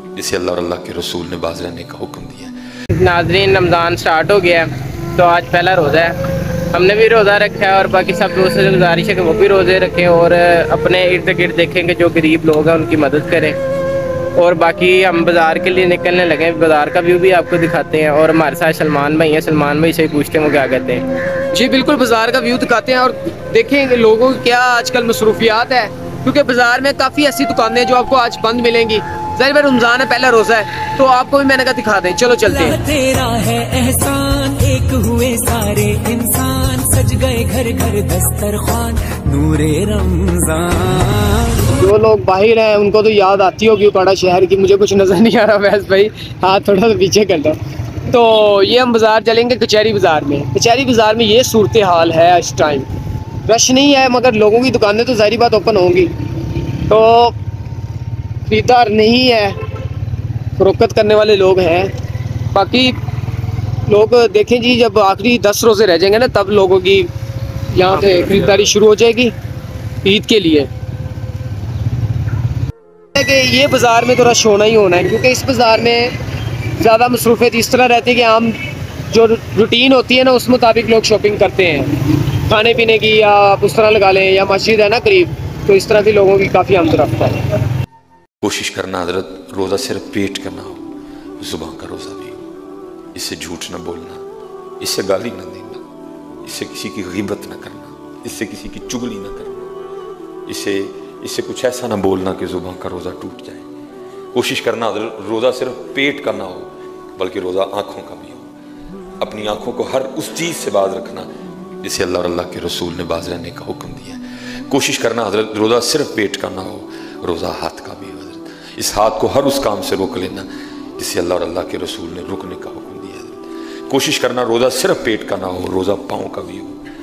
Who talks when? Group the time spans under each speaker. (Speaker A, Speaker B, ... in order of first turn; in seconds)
Speaker A: 0.1-2.5, 88.4-90.9, 91.4-92.4, 93.1-94.2, 94.8-95.8, 96.4-99.7, 100.5-103.7, 104.3-108.5, 109.2-111.3, 111.8-126.8
Speaker B: 2.9-6.2, 6.7-13.6, 14.4-21.1
Speaker C: 21.5-32.8, 41.8-52.9, 53.5-57.4, 58.5-59.6, 60.6-61.9, 62.5-63.0, 63.9-67.1, 67.7-69.3, 70.0-70.7, 73.2-76.2, 76.8-78.6, 79.1-87.4
Speaker D: 32.5-41.7